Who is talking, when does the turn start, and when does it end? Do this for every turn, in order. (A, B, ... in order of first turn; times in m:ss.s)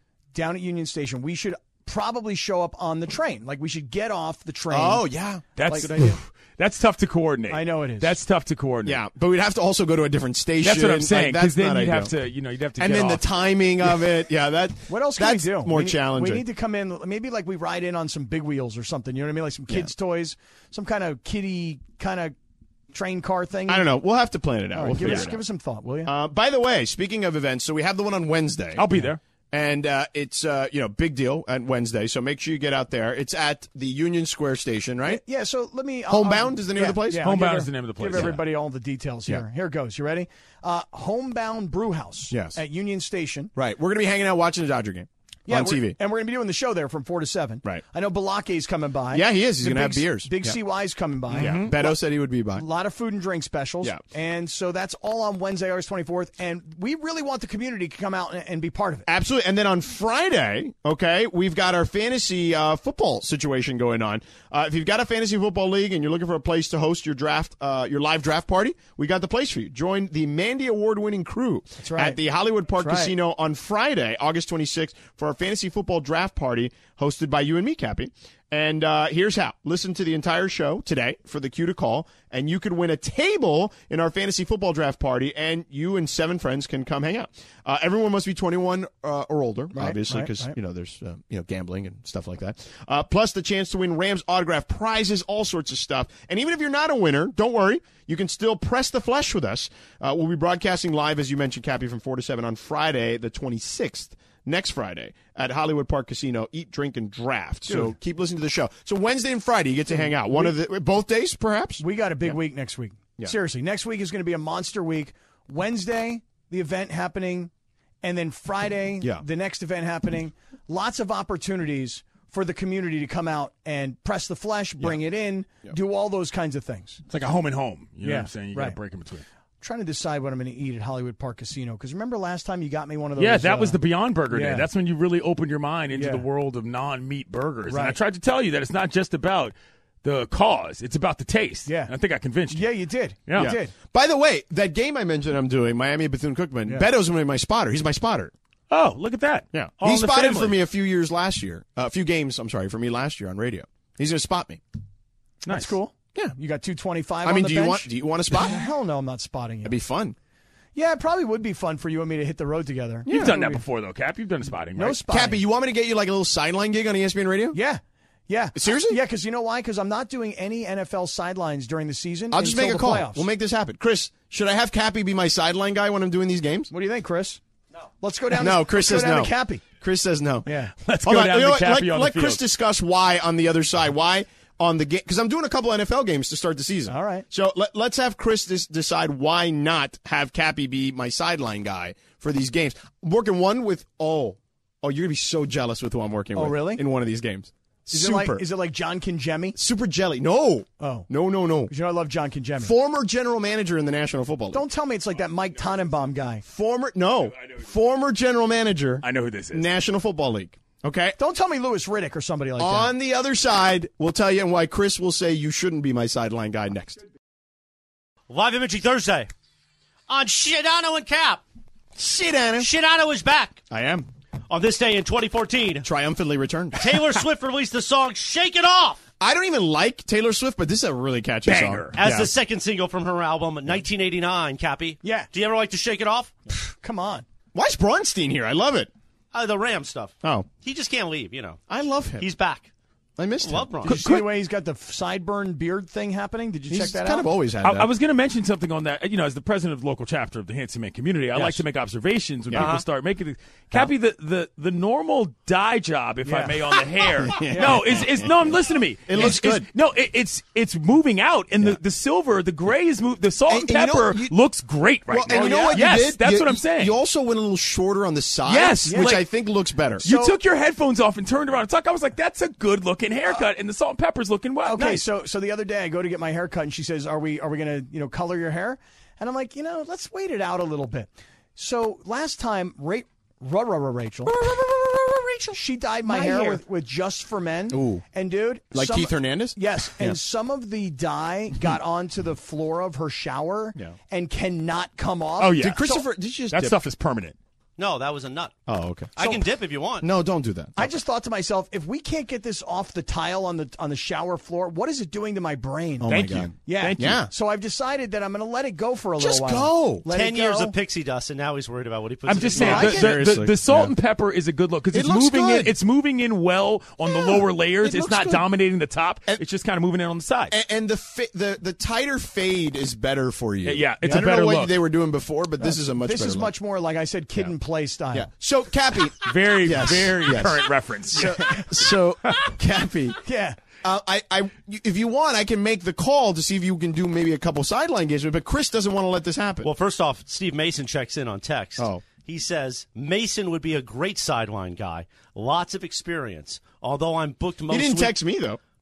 0:00.3-0:05.0 A
0:04.7-0:06.1 B
0:05.6-0:09.0 C
0:05.6-0:06.0 A
0:07.5-0:08.2 A
0:08.8-0:12.1 B
0:10.6-0:13.2 C
0:12.8-0:16.4 B
0:14.9-0:22.3 A
0:22.9-0:24.0 A
0:23.7-0:25.4 B
0:24.7-0:26.1 A
0:26.0-0:28.8 B
0:28.8-0:29.2 C
0:29.5-0:35.2 B
0:35.0-0:43.5 A
0:36.1-0:37.3 B
0:37.2-0:38.4 C
0:42.3-0:42.6 B
0:43.5-0:46.0 B
0:45.5-0:52.0 A
0:49.1-0:50.6 B
0:51.3-0:52.6 B
0:52.5-0:59.0 A
0:59.1-1:52.4 B
1:11.8-1:12.2 A
1:12.8-1:13.1 A
1:29.7-1:30.5 A
1:47.7-1:47.9 A
1:49.9-1:50.6 A
1:51.8-1:57.5 A
1:58.0-2:07.0 A
2:07.1-2:09.2 C
2:08.0-2:08.8 A
2:09.6-2:14.7 A
2:13.2-2:22.7 C
2:15.9-2:16.2 A
2:17.7-2:18.0 A
2:21.6-2:21.9 A
2:22.5-2:23.7 A
2:23.3-2:23.5 C
2:23.4-2:28.3 B
2:28.7-2:30.6 C
2:29.5-2:34.6 B
2:35.4-2:39.7 A
2:35.4-2:35.8 C
2:37.2-2:38.6 B
2:39.6-2:40.2 B
2:40.7-2:43.6 A
2:43.1-2:43.4 B
2:43.1-2:45.0 C
2:44.8-2:45.4 A
2:45.0-2:47.6 B
2:47.5-2:53.2 A
2:48.6-2:49.0 B
2:52.3-2:56.7 B
2:56.7-2:57.4 A
2:58.0-2:59.6 A
2:58.3-3:00.5 B
3:00.4-3:00.7 A
3:00.8-3:02.4 C
3:01.0-3:18.4 B
3:06.9-3:07.2 A
3:16.3-3:16.8 A
3:17.9-3:19.6 A
3:19.5-3:21.7 B
3:20.8-3:21.1 A
3:21.7-3:22.7 A
3:22.6-3:24.6 B
3:24.5-3:26.4 A
3:26.4-3:31.2 B
3:29.0-3:29.7 C
3:31.2-3:32.9 A
3:32.6-3:37.0 B
3:38.3-3:39.3 D
3:40.1-3:41.4 D
3:42.0-3:42.7 B
3:42.6-3:43.6 D
3:43.7-3:44.1 B
3:44.5-3:45.8 D
3:45.8-3:47.0 B
3:46.8-3:49.0 D
3:49.2-3:52.3 B
3:51.4-3:52.0 C
3:51.9-3:56.4 D
3:55.0-3:55.3 A
3:56.6-3:57.2 A
3:57.5-3:58.9 B
3:59.3-4:01.6 D
4:00.2-4:00.5 B
4:01.7-4:02.2 B
4:02.2-4:02.7 D
4:03.2-4:04.2 B
4:03.4-4:04.0 D
4:03.8-4:07.3 A
4:03.9-4:04.2 C
4:06.7-4:07.9 B
4:07.6-4:26.9 C
4:11.3-4:11.6 B
4:12.5-4:12.8 B
4:12.5-4:12.8 D
4:16.2-4:16.6 A
4:17.2-4:18.5 B
4:17.4-4:18.0 A
4:19.1-4:19.7 B
4:23.5-4:24.4 B
4:25.1-4:30.0 B
4:25.3-4:25.8 A
4:28.4-4:29.3 C
4:28.8-4:29.2 A
4:30.0-4:30.4 A
4:30.0-4:35.0 C
4:34.6-4:44.3 A
4:45.5-4:56.0 A
4:47.7-4:48.0 B
4:48.7-4:50.2 B
4:55.4-4:57.3 C
4:55.6-4:56.8 B
4:57.8-4:58.6 D
4:58.7-4:59.4 B
4:59.1-5:00.1 D
5:00.0-5:00.9 B
5:00.8-5:10.7 A
5:06.0-5:07.3 B
5:06.1-5:07.3 C
5:09.2-5:10.1 B
5:10.1-5:13.0 D
5:12.2-5:20.5 C
5:12.5-5:13.9 B
5:12.6-5:13.1 A
5:14.9-5:15.7 B
5:17.0-5:18.4 B
5:20.5-5:26.5 B
5:23.6-5:24.8 C
5:25.6-5:28.3 A
5:28.1-5:33.2 B
5:29.2-5:31.6 C
5:31.1-5:31.6 A
5:32.2-5:32.6 C
5:33.2-5:33.6 A
5:33.8-5:39.7 B
5:39.6-5:48.2 D
5:41.8-5:42.0 B
5:47.7-5:48.6 B